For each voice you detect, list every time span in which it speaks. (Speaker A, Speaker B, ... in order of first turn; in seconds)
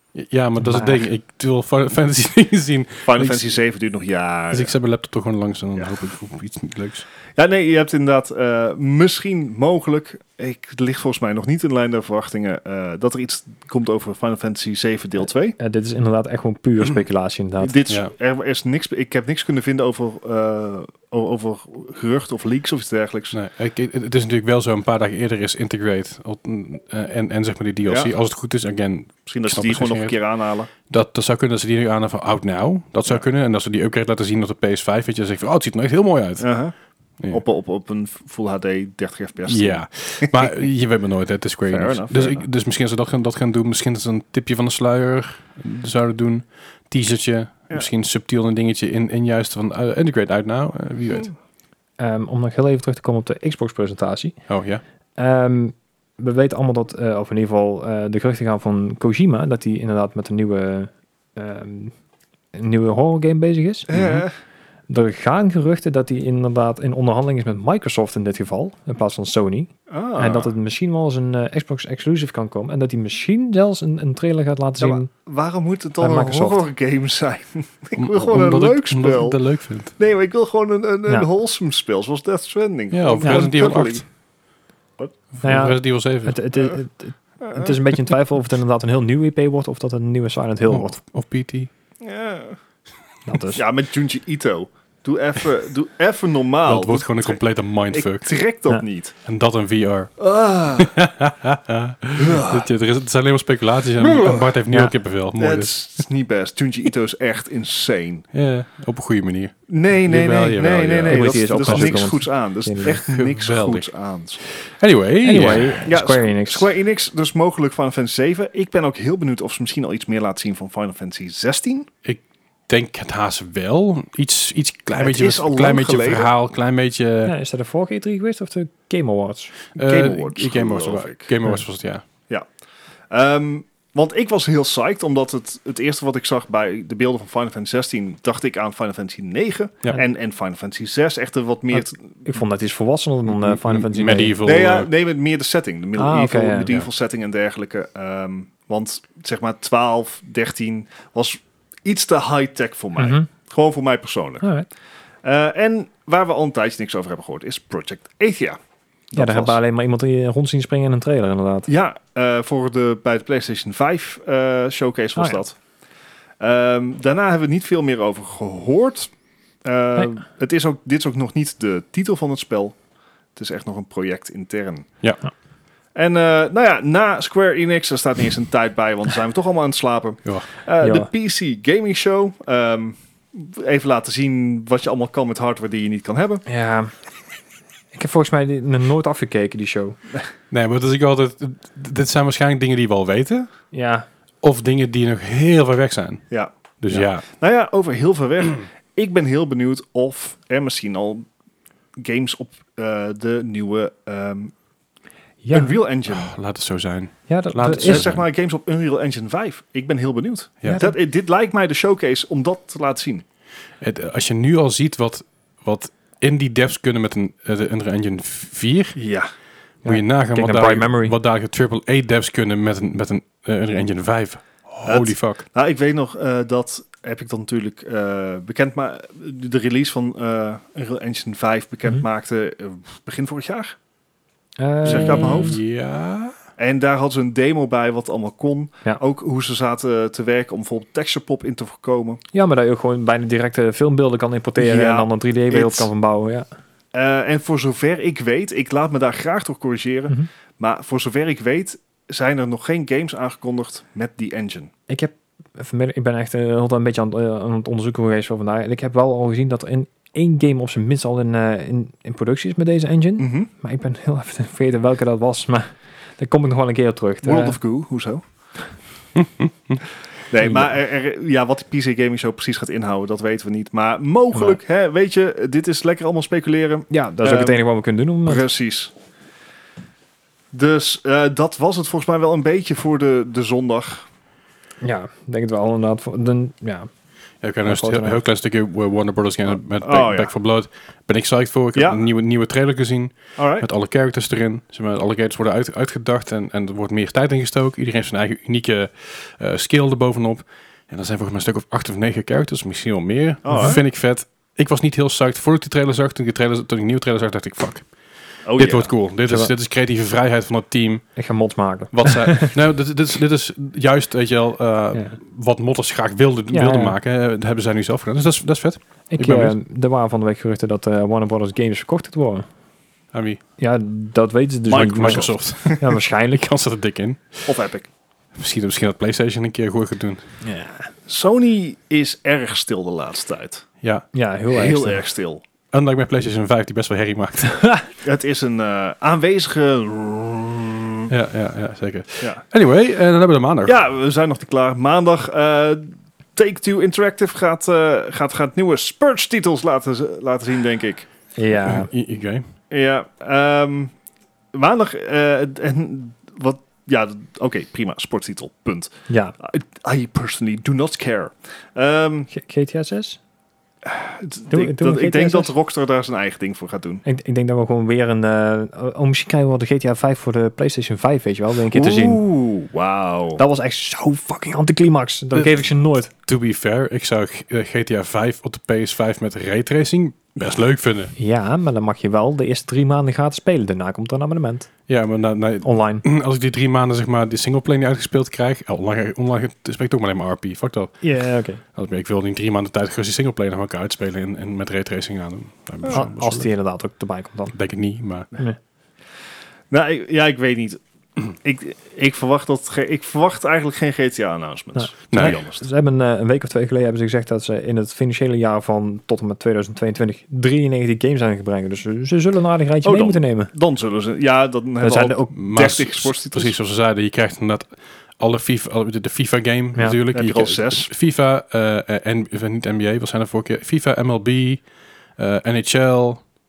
Speaker A: 0.1-3.5, 4.5-7.1, 23.3-30.2, 30.9-36.5, 39.5-51.3, 54.5-54.8, 63.9-64.2, 78.0-79.9, 82.9-84.0, 85.3-86.4, 90.7-91.7, 96.7-98.4, 99.3-100.2, 100.8-105.9, 108.3-112.2, 112.8-113.9, 114.5-115.8, 122.0-127.3, 129.8-132.0, 143.3-144.9, 190.5-193.5, 194.4-196.3, 196.8-197.2, 206.1-208.2, 213.8-219.0, 219.8-225.4, 234.9-236.3, 269.2-269.8, 287.4-307.9, 308.5-311.2, 311.9-319.6, 323.1-323.4, 324.7-327.5, 328.4-330.2, 333.8-334.1, 335.7-337.8, 341.1-343.8, 351.6-352.4, 376.3-381.1, 384.9-391.1, 391.8-396.5, 397.5-398.3, 405.1-405.4, 415.3-424.6, 425.2-426.3
Speaker B: 0.6-1.1, 15.6-17.8, 52.0-54.4, 55.2-61.9, 62.5-63.9, 64.9-75.1, 76.0-76.6, 85.4-91.0, 93.3-93.6, 111.1-113.0, 115.2-116.7, 127.2-129.6, 141.7-144.3, 146.0-146.7, 153.0-153.3, 154.4-154.7, 159.2-161.7, 180.8-181.1, 186.5-186.9, 187.9-190.0, 193.7-194.1, 205.4-205.8, 207.3-208.1, 210.6-211.0, 219.8-221.1, 234.6-235.6, 242.3-246.5, 254.9-267.6, 276.9-278.4, 284.8-286.9, 287.6-288.2, 303.5-303.8, 309.3-309.5, 311.2-312.5, 316.5-317.0, 319.1-322.5, 323.6-326.6, 330.4-330.9, 334.1-335.0, 351.4-351.9, 359.1-359.3, 362.3-363.2, 364.5-365.5, 367.1-372.2, 373.4-376.1, 381.2-384.7, 385.6-386.0, 391.0-391.6, 395.9-397.6, 404.8-413.5, 414.8-415.4
Speaker C: 3.1-4.7, 7.3-15.6, 17.6-23.4, 27.9-28.1, 29.3-30.7, 36.4-36.7, 37.3-40.5, 41.7-42.5, 63.9-64.3, 69.9-70.5, 74.8-79.4, 80.0-84.0, 87.4-87.8, 92.0-92.6, 93.5-97.4, 97.9-99.1, 100.2-101.0, 102.2-102.7, 104.0-104.6, 105.4-108.2, 109.7-114.4, 115.5-121.9, 125.0-126.3, 129.8-131.3, 133.1-142.3, 144.4-154.4, 155.2-158.6, 159.1-159.6, 161.7-165.6, 166.4-169.1, 169.6-172.8, 173.3-174.9, 175.9-186.4, 196.3-201.3, 202.0-204.5, 205.5-206.3, 207.7-213.2, 219.0-219.3, 224.8-233.8, 234.8-235.6, 236.6-242.2, 244.6-245.9, 246.9-254.7, 263.2-263.5, 267.2-268.2, 270.3-277.6, 278.3-278.9, 280.5-284.1, 289.6-290.3, 291.8-292.1, 293.4-293.7, 303.4-303.8, 308.4-308.9, 324.7-325.8, 327.5-327.9, 331.1-333.7, 334.5-335.4, 338.0-341.1, 343.6-351.1, 352.7-353.9, 354.5-362.3, 363.8-367.0, 371.7-373.4, 399.7-405.7, 412.8-416.6, 420.1-420.9